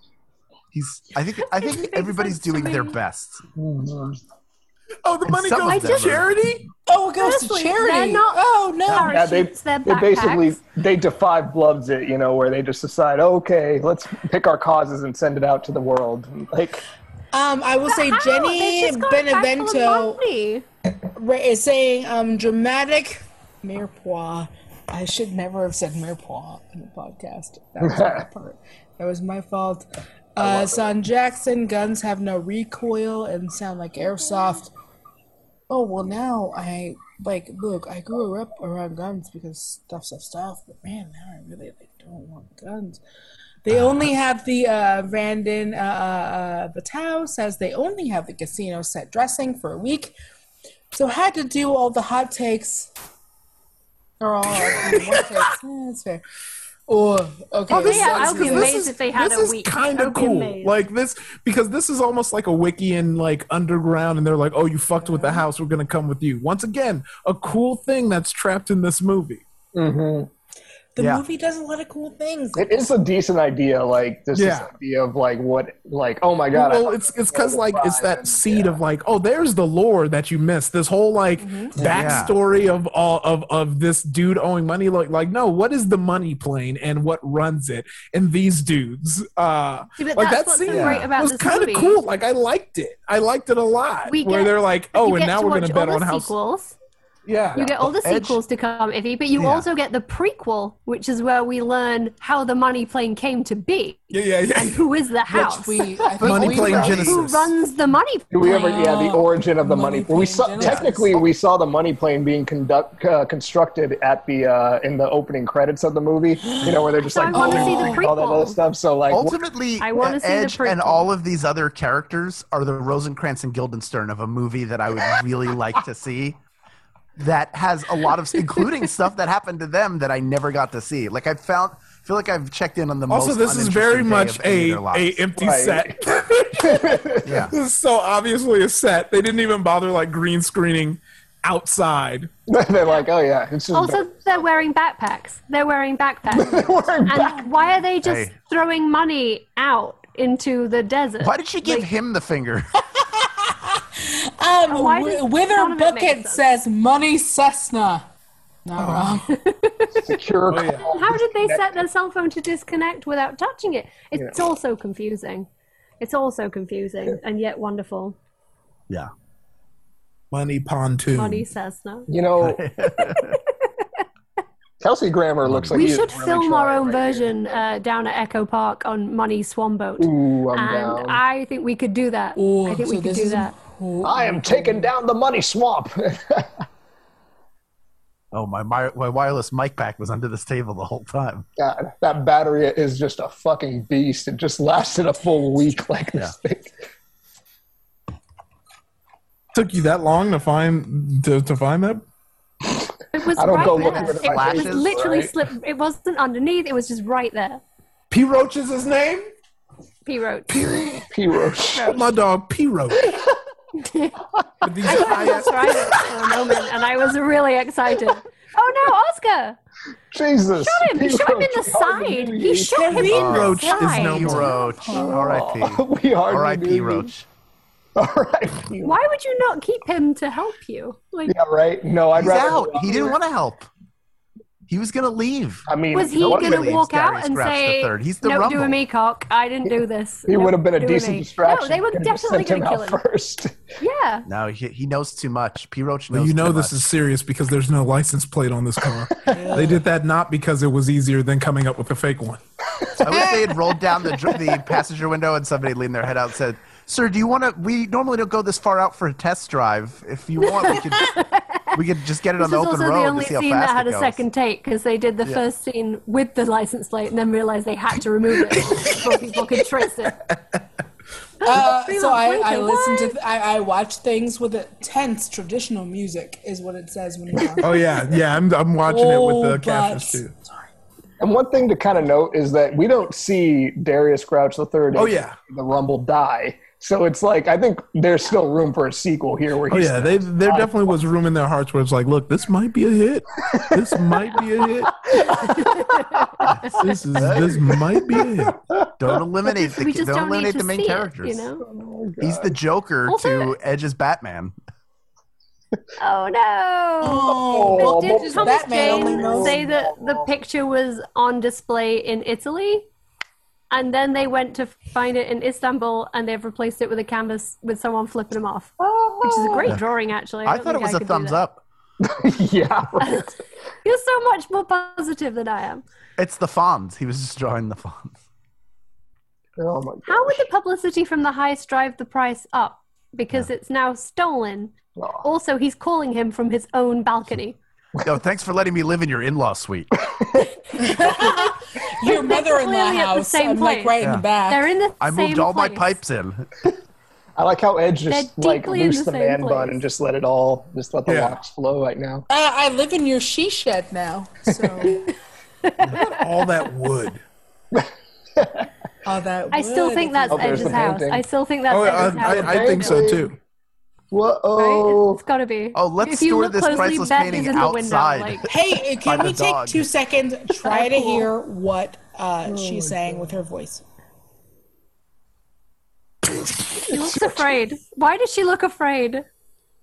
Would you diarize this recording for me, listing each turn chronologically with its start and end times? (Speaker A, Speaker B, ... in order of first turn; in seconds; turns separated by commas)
Speaker A: 0.7-3.4, Speaker B: 1.4-3.0, Speaker C: 3.5-4.2, Speaker D: 5.0-6.7, Speaker A: 5.2-6.3, Speaker B: 5.7-6.1, Speaker E: 6.9-9.2, Speaker B: 7.2-10.6, Speaker C: 8.9-16.8, Speaker E: 17.3-20.2, Speaker B: 17.9-20.6, Speaker E: 21.1-34.7, Speaker C: 30.4-30.8, Speaker E: 35.7-43.0, Speaker E: 43.6-50.1, Speaker E: 50.9-52.9, Speaker E: 54.2-56.2, Speaker E: 56.9-58.8, Speaker D: 57.7-69.4, Speaker B: 57.7-60.8, Speaker E: 65.0-65.4, Speaker C: 69.7-70.3, Speaker E: 71.0-72.9, Speaker A: 71.0-71.2, Speaker C: 72.5-78.8, Speaker D: 74.3-74.7, Speaker D: 76.5-96.3, Speaker E: 81.4-81.8, Speaker C: 81.8-82.2, Speaker A: 81.8-82.3, Speaker B: 90.0-92.0, Speaker B: 94.0-96.8, Speaker D: 97.2-97.9, Speaker B: 97.5-105.8, Speaker A: 98.0-98.4, Speaker A: 99.3-99.7, Speaker D: 104.1-104.8, Speaker E: 105.3-107.2, Speaker D: 106.2-107.3, Speaker A: 106.2-107.5, Speaker B: 106.6-108.6, Speaker C: 106.6-107.1, Speaker C: 108.3-119.4, Speaker E: 108.4-111.2, Speaker E: 116.4-118.0, Speaker B: 117.0-118.6, Speaker A: 119.1-126.4, Speaker B: 119.8-121.1, Speaker A: 127.2-135.2, Speaker D: 133.1-142.3, Speaker C: 135.3-136.0, Speaker C: 136.6-137.2, Speaker A: 137.2-137.5, Speaker C: 142.5-144.1, Speaker B: 143.7-151.9, Speaker C: 146.3-147.5, Speaker A: 148.0-148.3, Speaker A: 151.2-152.7, Speaker E: 153.2-158.1, Speaker B: 154.7-156.4, Speaker E: 158.6-159.3, Speaker D: 158.8-159.1, Speaker B: 159.3-160.1, Speaker C: 160.0-161.8, Speaker D: 160.5-160.9, Speaker B: 160.8-165.5, Speaker C: 164.1-164.4, Speaker B: 166.0-168.2, Speaker D: 170.3-171.4, Speaker B: 171.1-172.1, Speaker C: 172.1-172.6, Speaker A: 172.4-173.4, Speaker B: 173.0-173.3, Speaker C: 174.8-177.6, Speaker A: 175.4-175.9, Speaker B: 175.7-183.5, Speaker C: 180.0-181.2, Speaker E: 182.3-184.9, Speaker C: 184.0-186.6, Speaker A: 188.3-191.4, Speaker C: 191.6-196.7, Speaker D: 199.5-202.0, Speaker B: 203.1-207.6, Speaker C: 203.2-205.3, Speaker A: 203.5-204.9, Speaker D: 208.1-209.3, Speaker B: 210.0-210.5, Speaker D: 210.5-211.1, Speaker C: 211.1-212.1, Speaker D: 211.7-213.1, Speaker B: 213.8-214.1, Speaker D: 214.6-216.0, Speaker B: 214.8-219.6, Speaker C: 220.1-223.0, Speaker B: 220.6-224.4, Speaker E: 222.7-225.3, Speaker D: 223.0-224.6, Speaker A: 223.1-227.2, Speaker C: 224.9-227.1, Speaker C: 227.9-229.0, Speaker B: 228.8-231.3, Speaker C: 231.3-233.2, Speaker A: 232.1-233.7, Speaker A: 234.7-238.8, Speaker C: 235.7-236.7, Speaker B: 235.9-243.0, Speaker C: 240.3-243.6, Speaker B: 243.8-244.3, Speaker A: 244.3-246.9, Speaker D: 246.1-252.4, Speaker E: 249.3-249.8, Speaker A: 253.0-261.2, Speaker B: 260.4-261.8, Speaker A: 261.7-264.2, Speaker B: 262.4-270.2, Speaker E: 271.4-278.1, Speaker B: 271.4-273.1, Speaker D: 277.6-280.3, Speaker E: 278.9-280.3, Speaker C: 281.2-290.7, Speaker D: 284.9-285.4, Speaker D: 289.7-295.8, Speaker C: 295.1-295.5, Speaker B: 295.6-296.4, Speaker D: 296.6-298.6, Speaker A: 297.1-297.7, Speaker C: 297.7-298.9, Speaker A: 299.0-301.5, Speaker B: 299.7-301.6, Speaker C: 301.6-302.6, Speaker A: 302.2-304.5, Speaker B: 303.1-303.5, Speaker B: 306.0-312.9, Speaker E: 307.0-309.6, Speaker C: 307.4-310.3, Speaker B: 313.7-321.4, Speaker C: 318.8-319.8, Speaker A: 320.4-321.6, Speaker C: 322.0-323.4, Speaker B: 323.0-325.8, Speaker A: 326.2-328.2, Speaker C: 329.6-330.5, Speaker B: 330.1-337.6, Speaker C: 334.9-335.3, Speaker A: 338.0-339.9, Speaker C: 340.1-340.5, Speaker E: 340.8-344.7, Speaker B: 341.0-341.5, Speaker B: 342.1-345.9, Speaker A: 344.0-344.2, Speaker A: 345.0-346.5, Speaker C: 347.4-352.2, Speaker B: 348.1-349.8, Speaker D: 351.0-351.4, Speaker E: 352.3-355.1, Speaker B: 355.6-356.6, Speaker D: 355.8-357.2, Speaker C: 357.7-358.7, Speaker E: 359.0-361.0, Speaker B: 359.5-363.1, Speaker C: 360.3-361.2, Speaker D: 361.7-363.3, Speaker C: 361.9-363.3, Speaker C: 364.1-365.2, Speaker B: 364.6-368.4, Speaker A: 365.7-368.5, Speaker E: 368.5-373.8, Speaker A: 369.0-369.9, Speaker B: 370.6-371.3, Speaker C: 372.4-373.4, Speaker B: 376.8-379.2